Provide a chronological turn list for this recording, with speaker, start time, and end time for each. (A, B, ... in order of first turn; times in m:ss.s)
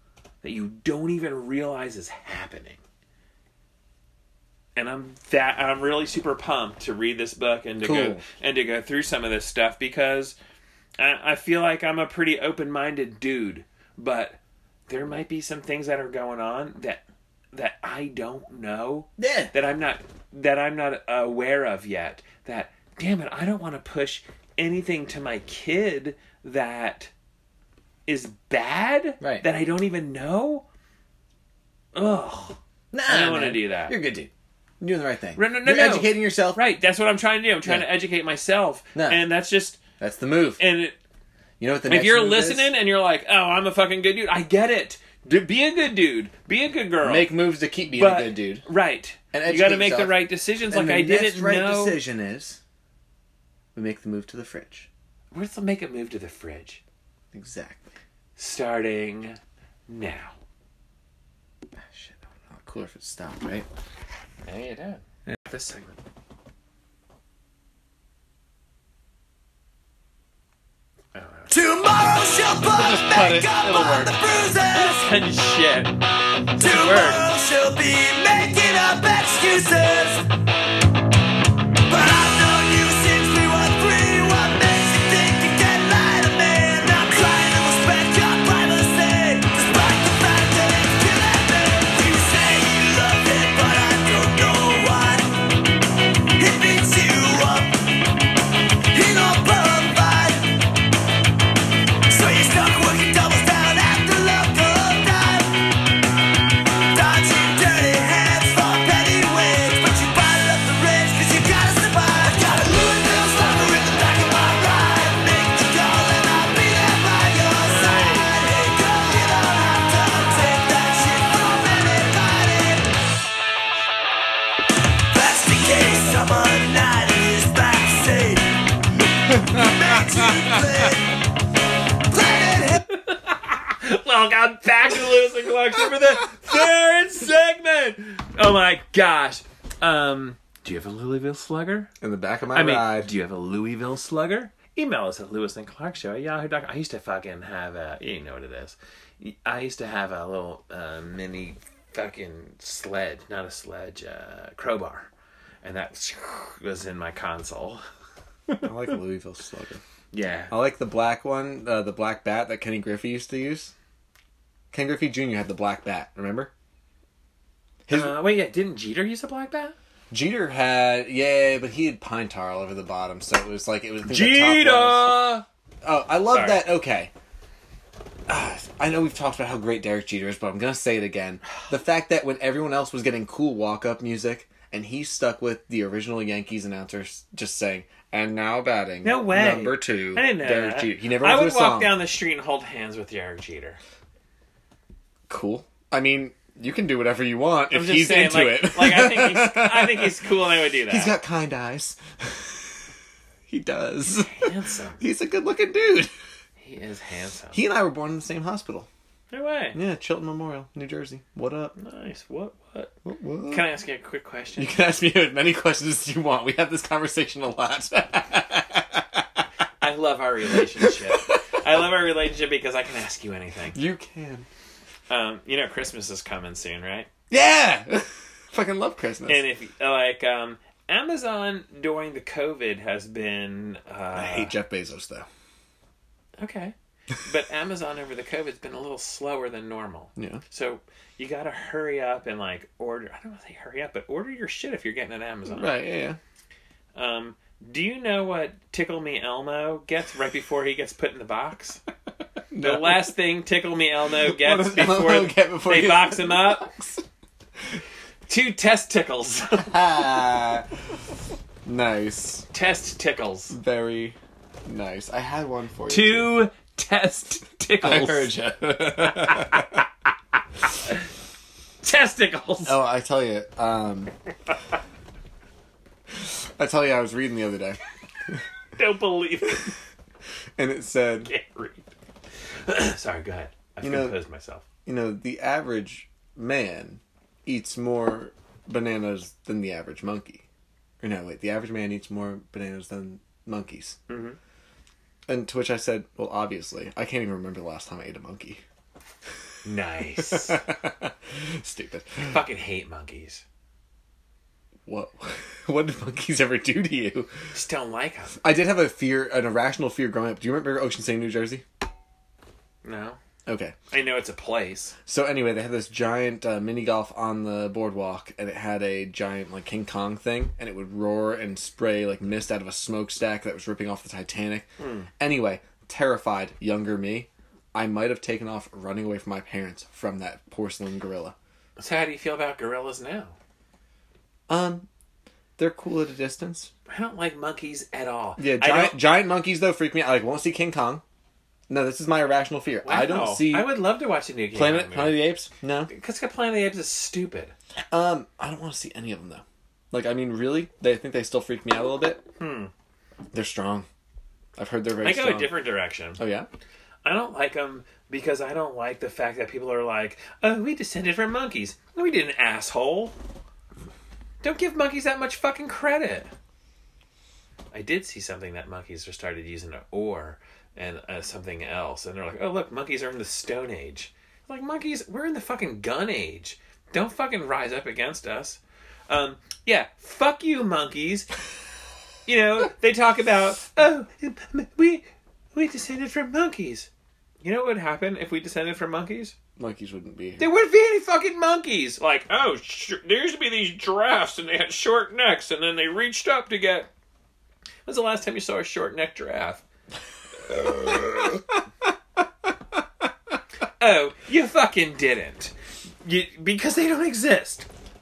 0:00.4-0:02.8 A
0:04.8-0:10.4 A
0:07.8-0:08.2 B
0:11.0-0:27.1 A
0:19.2-0:19.5 B
0:28.0-0:30.6 A
0:31.9-0:34.0 A
0:32.9-0:36.6 B
0:35.4-0:39.8 A
0:37.6-0:37.9 B
0:38.9-0:39.2 B
0:40.0-0:40.6 B
0:40.6-0:41.0 A
0:41.6-0:42.7 B
0:41.8-0:47.3 A
0:47.0-0:48.6 B
0:47.9-0:52.0 A
0:49.3-0:50.2 B
0:50.7-0:52.6 B
0:53.7-0:54.9 B
0:55.3-0:56.8 A
0:57.3-0:57.9 B
0:58.4-1:00.3 A
1:01.8-1:03.7 B
1:04.4-1:05.9 A
1:05.3-1:05.6 B
1:11.1-1:11.5 A
1:11.5-1:15.0 C
1:12.7-1:14.2 B
1:14.7-1:16.0 A
1:16.6-1:17.2 A
1:16.6-1:20.2 C
1:21.9-1:35.3 C
1:36.4-1:37.9 C
1:38.9-1:40.5 C
1:42.1-1:45.6 C
1:46.9-2:02.9 C
1:57.6-1:58.4 A
2:05.1-2:08.6 C
2:09.3-2:10.6 B
2:09.5-2:11.1 C
2:12.1-2:12.8 C
2:12.9-2:21.9 A
2:22.0-2:23.1 B
2:22.5-2:35.1 A
2:35.6-2:37.8 A
2:38.6-2:39.8 B
2:40.1-2:40.5 A
2:40.5-2:43.7 B
2:44.7-2:46.5 B
2:47.8-2:48.2 B
2:47.9-2:49.7 A
2:50.1-2:55.3 B
2:54.0-2:55.4 A
2:55.8-2:57.1 B
2:56.3-2:56.7 A
2:58.3-3:12.0 B
3:09.0-3:13.8 A
3:15.3-3:20.3 B
3:17.7-3:21.1 A
3:20.9-3:22.8 B
3:23.5-3:26.1 B
3:24.1-3:25.0 A
3:26.6-3:27.6 A
3:27.5-3:28.9 B
3:29.3-3:29.8 A
3:29.7-3:31.7 B
3:31.8-3:32.9 A
3:33.0-3:33.6 B
3:33.5-3:34.7 A
3:34.6-3:39.4 B
3:39.8-3:43.8 A
3:40.6-3:41.4 B
3:43.7-3:44.5 B
3:45.1-3:47.1 A
3:47.3-3:49.4 B
3:49.3-3:54.5 A
3:54.1-3:55.3 B
3:56.4-4:05.7 A
4:00.2-4:00.4 B
4:05.5-4:06.2 B
4:06.9-4:11.8 A
4:12.5-4:13.1 B
4:12.6-4:16.7 A
4:14.2-4:17.0 B
4:18.3-4:19.9 A
4:19.6-4:20.7 B
4:21.6-4:22.5 B
4:22.5-4:23.5 A
4:23.5-4:26.4 B
4:25.9-4:29.8 A
4:27.8-4:29.7 B
4:31.8-4:32.8 A
4:32.6-4:34.1 B
4:36.1-4:38.4 B
4:38.8-4:39.7 A
4:40.6-4:41.3 B
4:41.2-4:41.9 A
4:42.6-4:44.6 A
4:43.8-4:44.2 B
4:44.8-4:50.4 B
4:51.0-4:54.0 B
4:54.1-4:54.4 A
4:55.3-4:58.6 B
4:59.6-5:00.6 A
5:00.2-5:02.4 B
5:02.2-5:03.4 A
5:04.8-5:07.3 B
5:07.5-5:08.4 A
5:08.4-5:11.6 B
5:12.8-5:13.2 A
5:13.4-5:13.7 B
5:13.9-5:14.9 A
5:15.0-5:24.7 B
5:24.8-5:25.1 A
5:25.2-5:31.3 B
5:31.8-5:33.3 A
5:34.5-5:34.9 B
5:35.6-5:36.7 B
5:36.9-5:39.0 A
5:38.4-5:41.0 B
5:41.7-5:43.8 B
5:42.8-5:45.3 A
5:44.5-5:45.9 B
5:45.9-5:47.5 A
5:47.9-5:52.2 B
5:52.4-5:52.7 A
5:53.3-5:53.8 B
5:54.6-5:55.5 B
5:55.0-5:56.2 A
5:56.2-5:56.5 B
5:57.0-6:03.1 A
6:04.4-6:06.3 A
6:07.7-6:21.3 A
6:22.3-6:26.9 A
6:27.4-6:29.4 A
6:29.6-6:30.4 B
6:30.4-6:36.9 A
6:37.8-6:39.6 A
6:40.5-6:41.1 B
6:40.5-6:41.3 A
6:43.8-6:47.7 A